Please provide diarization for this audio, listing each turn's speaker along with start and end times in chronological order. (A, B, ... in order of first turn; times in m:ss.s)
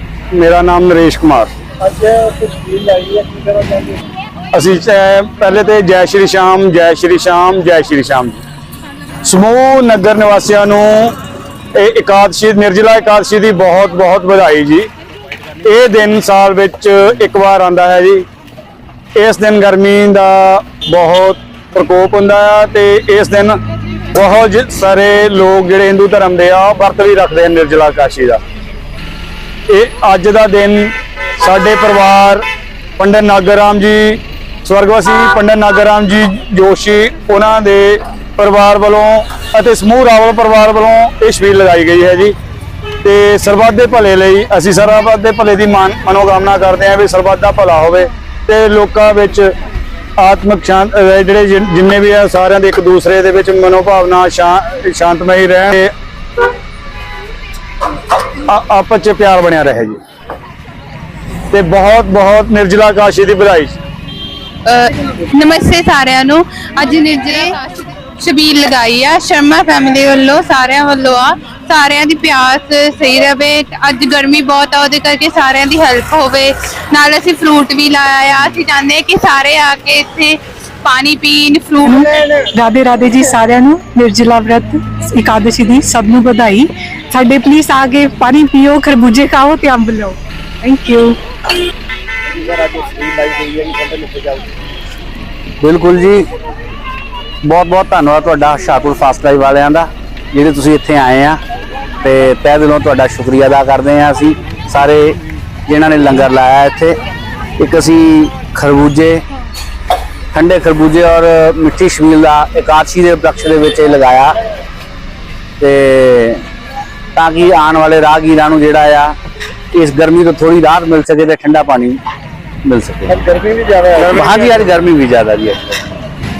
0:00.3-0:01.5 A
0:01.8-0:04.0 B
0:04.5-0:08.4 A
0:09.2-0:11.1 A
0:11.7-0:14.9 A
0:15.6-0:18.2 A
0:19.2-0:23.6 A
0:24.1-0:28.4 A
0:29.7-0:32.4 A
0:33.0-0:42.3 A
0:43.0-0:49.5 A
0:50.2-0:55.9 A
0:58.5-1:00.0 A
1:01.5-1:03.8 A
1:04.6-1:22.0 C
1:21.8-1:31.2 D
1:22.1-1:22.5 B
1:32.3-1:34.5 B
1:35.6-1:36.2 E
1:37.4-1:41.4 E
1:42.0-1:47.0 E
1:47.6-1:49.2 E
1:50.3-1:54.4 E
1:55.6-1:56.4 E
1:57.1-1:59.1 E
1:59.7-2:02.0 E
2:02.6-2:03.2 E
2:03.1-2:04.7 B
2:04.0-2:05.8 E